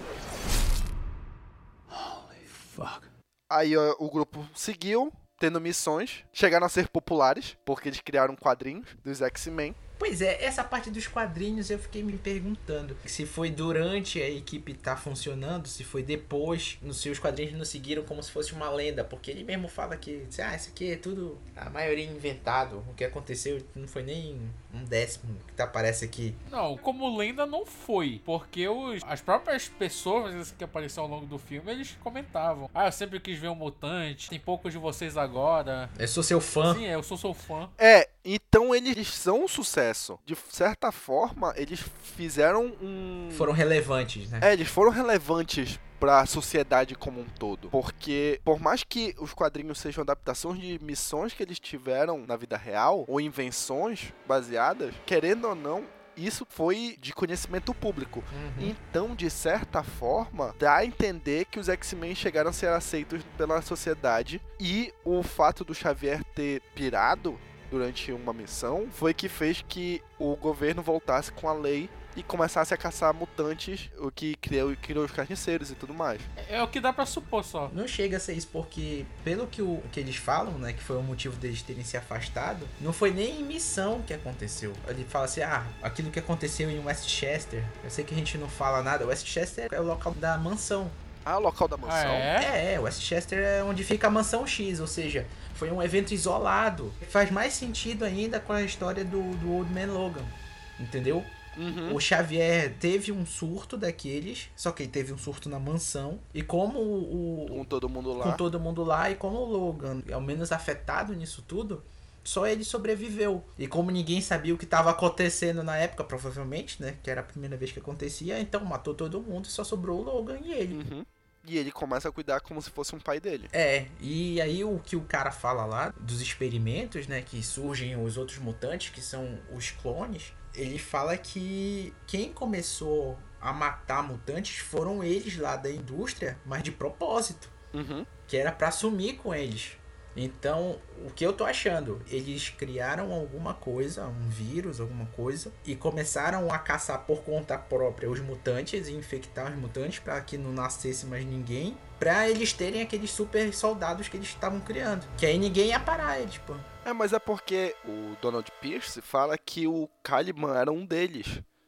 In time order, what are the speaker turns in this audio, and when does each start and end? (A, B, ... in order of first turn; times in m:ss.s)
0:03.5-0:09.8 A
0:10.0-0:26.4 B
0:26.5-0:35.9 C
0:36.0-0:36.8 B
0:36.7-0:37.7 C
0:37.8-0:43.5 A
0:43.3-0:44.5 B
0:44.4-1:16.3 A
0:58.3-0:58.8 B
1:16.4-1:17.7 C
1:17.7-1:31.0 B
1:31.2-1:32.3 A
1:31.8-1:32.5 C
1:32.4-1:47.6 B
1:41.6-1:42.0 A
1:47.5-1:48.4 A
1:48.2-2:00.8 B
2:00.7-2:03.5 A
2:03.5-2:17.6 B
2:17.7-2:18.1 A
2:18.3-2:36.7 B
2:36.8-2:41.4 A